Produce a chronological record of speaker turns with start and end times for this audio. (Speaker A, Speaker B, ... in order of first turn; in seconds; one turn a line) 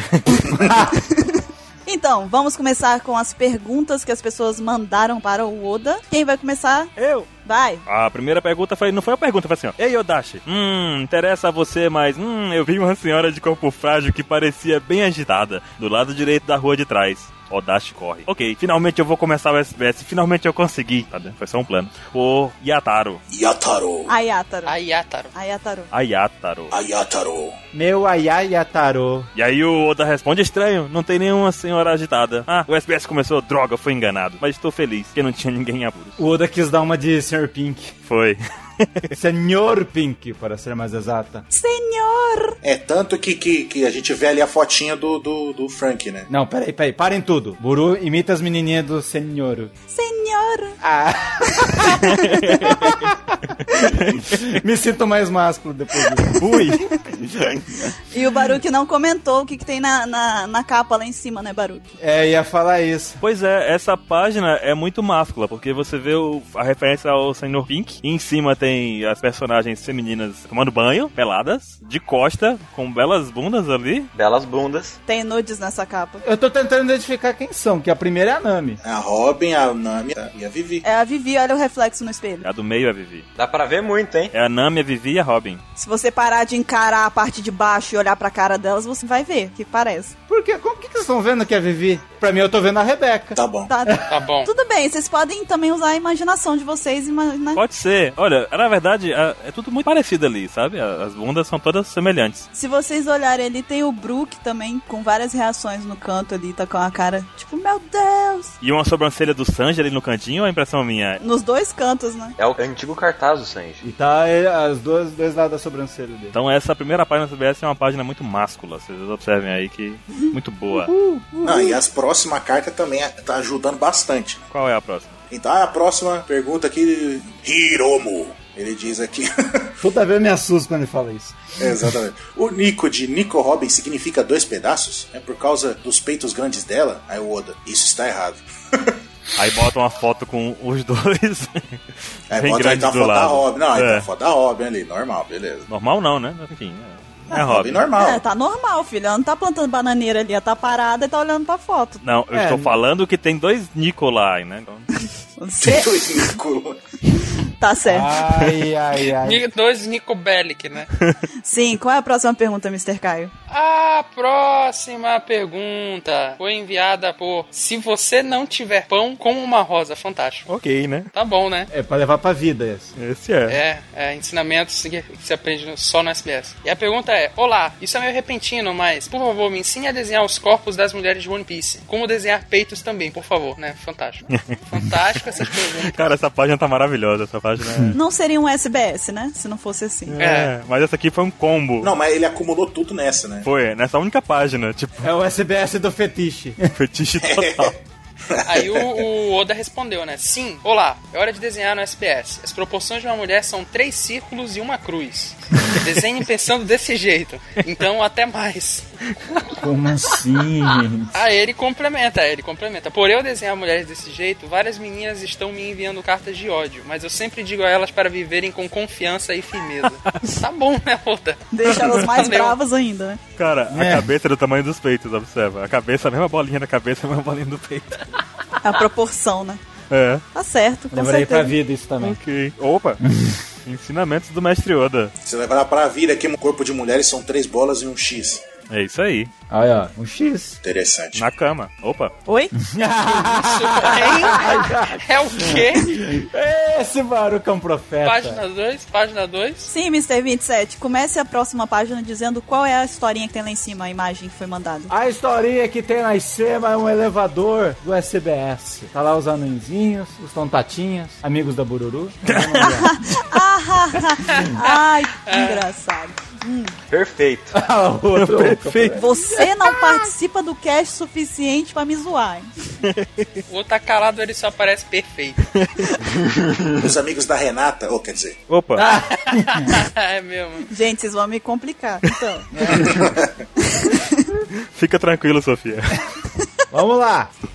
Speaker A: 0.3-6.9
Speaker B: 0.6-0.9
Speaker C: 7.0-7.3
Speaker A: 7.4-7.8
Speaker C: 7.9-23.2
Speaker D: 23.3-24.1
Speaker A: 24.1-24.8
Speaker E: 24.6-25.3
Speaker A: 25.3-25.9
Speaker C: 25.9-26.7
Speaker D: 26.7-27.6
Speaker B: 27.7-29.3
Speaker C: 29.4-36.2
Speaker B: 36.2-37.9
Speaker C: 38.1-39.1
Speaker B: 39.1-41.4
Speaker A: 41.5-42.6
Speaker D: 42.6-46.3
Speaker B: 46.3-49.7
Speaker A: 49.9-50.8
Speaker B: 50.8-57.9
Speaker A: 51.5-53.0
Speaker C: 52.0-52.9
Speaker C: 56.4-56.9
Speaker A: 58.1-61.9
Speaker B: 62.0-63.2
Speaker C: 63.2-74.1
Speaker F: 74.1-75.0
Speaker A: 75.1-76.2
Speaker B: 76.2-78.8
Speaker D: 78.8-80.8
Speaker A: 80.8-82.5
Speaker C: 82.4-83.3
Speaker F: 83.4-84.3
Speaker C: 84.3-85.6
Speaker A: 85.8-90.1
Speaker B: 90.3-94.0
Speaker D: 93.4-93.7
Speaker A: 93.7-97.6
Speaker E: 94.1-94.5
Speaker C: 97.5-102.5
Speaker A: 102.5-108.5
Speaker C: 108.6-111.2
Speaker A: 111.2-112.4
Speaker F: 112.4-113.8
Speaker B: 113.8-116.3
Speaker C: 116.3-120.9
Speaker B: 120.7-121.8
Speaker D: 121.4-124.4
Speaker C: 124.5-125.2
Speaker D: 125.3-129.8
Speaker B: 129.8-131.9
Speaker D: 131.6-139.0
Speaker C: 139.4-144.1
Speaker D: 142.3-145.7
Speaker C: 145.7-147.9
Speaker D: 147.3-148.2
Speaker A: 148.0-152.0
Speaker C: 152.0-154.9
Speaker B: 152.3-152.8
Speaker A: 155.4-156.3
Speaker D: 155.6-156.8
Speaker A: 157.6-158.2
Speaker B: 157.8-159.4
Speaker E: 159.1-160.9
Speaker A: 161.4-163.3
Speaker E: 163.5-170.5
Speaker C: 170.5-171.1
Speaker E: 171.1-171.7
Speaker B: 171.7-172.9
Speaker C: 173.0-173.6
Speaker E: 173.5-186.1
Speaker C: 185.4-188.0
Speaker B: 187.7-187.9
Speaker A: 187.9-190.2
Speaker C: 190.1-191.9
Speaker E: 190.2-190.5
Speaker D: 191.8-193.5
Speaker C: 193.4-195.1
Speaker B: 195.0-196.7
Speaker C: 196.7-197.8
Speaker D: 197.2-197.7
Speaker D: 198.3-199.1
Speaker E: 198.4-208.9
Speaker B: 209.5-211.1
Speaker E: 211.1-222.6
Speaker A: 221.5-223.2
Speaker C: 223.4-228.1
Speaker B: 223.7-224.1
Speaker A: 228.6-229.6
Speaker C: 229.9-230.2
Speaker A: 230.3-231.6
Speaker B: 230.9-232.2
Speaker C: 232.0-233.0
Speaker B: 233.0-233.4
Speaker C: 233.7-235.1
Speaker D: 235.2-238.4
Speaker C: 238.7-239.3
Speaker B: 239.5-240.6
Speaker D: 240.6-241.2
Speaker C: 241.1-242.1
Speaker A: 242.3-242.5
Speaker B: 242.6-248.4
Speaker E: 243.2-246.0
Speaker E: 248.0-249.7
Speaker A: 249.7-254.9
Speaker B: 254.9-263.0
Speaker C: 262.3-262.8
Speaker A: 262.6-266.8
Speaker B: 264.3-264.6
Speaker E: 264.3-265.6
Speaker F: 266.9-267.6
Speaker B: 267.5-269.5
Speaker C: 268.1-269.0
Speaker A: 268.9-272.5
Speaker C: 272.8-273.3
Speaker E: 273.5-275.4
Speaker C: 275.6-275.9
Speaker F: 276.3-276.6
Speaker D: 276.7-278.4
Speaker C: 278.5-278.9
Speaker B: 278.8-279.7
Speaker E: 278.8-280.7
Speaker A: 280.7-282.5
Speaker B: 282.5-283.1
Speaker D: 282.7-283.3
Speaker A: 283.6-284.3
Speaker C: 284.6-286.0
Speaker B: 286.7-287.3